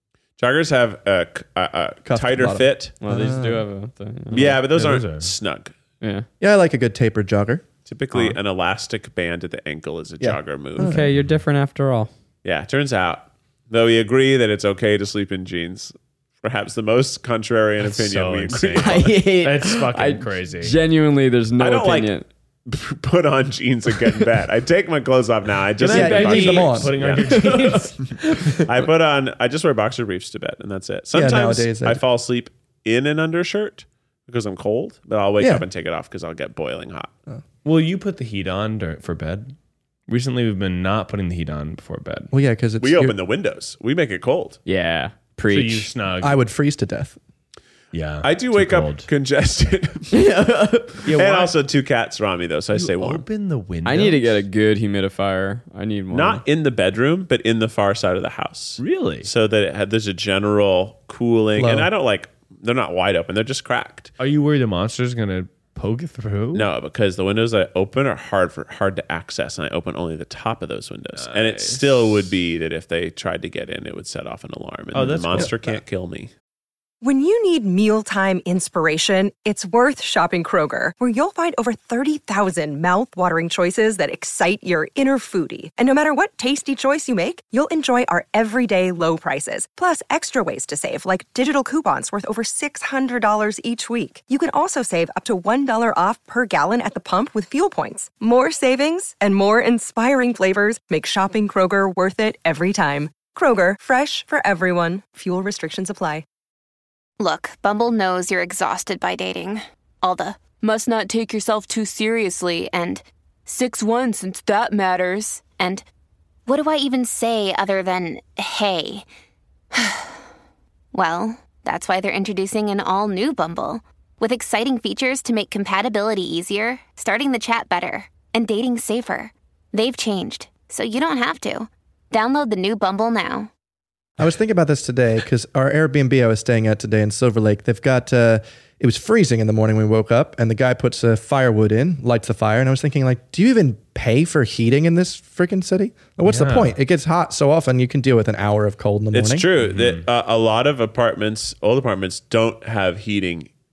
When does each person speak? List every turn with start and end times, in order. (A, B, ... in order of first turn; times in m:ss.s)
0:00.4-0:03.0 A
0:02.1-0:03.6 B
0:03.0-0:04.6 C
0:04.3-0:05.7 A
0:04.4-0:05.3 D
0:06.0-0:06.3 C
0:06.4-0:07.6 B
0:07.9-0:11.0 A
0:10.2-0:11.1 B
0:10.8-0:12.1 C
0:12.4-0:19.1 A
0:17.8-0:20.8 D
0:18.8-0:22.3 C
0:21.6-0:27.5 A
0:25.8-0:28.6 D
0:25.9-0:27.0 B
0:27.3-0:27.8 C
0:28.6-0:37.1 A
0:31.1-0:32.0 B
0:35.4-0:35.6 B
0:37.6-0:39.5 D
0:40.1-0:42.3 D
0:42.3-0:43.2 B
0:42.8-0:44.6 A
0:44.7-0:45.9 C
0:45.5-0:46.4 D
0:46.2-0:47.2 B
0:47.9-0:49.1 D
0:48.2-0:50.1 A
0:50.1-0:51.0 C
0:51.0-0:51.5 D
0:51.1-0:53.2 A
0:52.7-0:54.4 D
0:53.8-0:56.4 C
0:56.1-1:04.1 A
0:58.8-0:59.3 D
1:01.6-1:01.9 B
1:04.2-1:06.7 D
1:06.5-1:16.3 A
1:11.2-1:12.1 D
1:14.9-1:15.8 D
1:17.0-1:46.2 E
1:47.2-1:55.8 F
1:56.5-1:59.1 F
1:59.7-2:00.1 F
2:00.9-2:13.5 F
2:14.2-2:29.5 B
2:26.3-2:26.8 D
2:29.1-2:33.5 A
2:29.6-2:30.0 D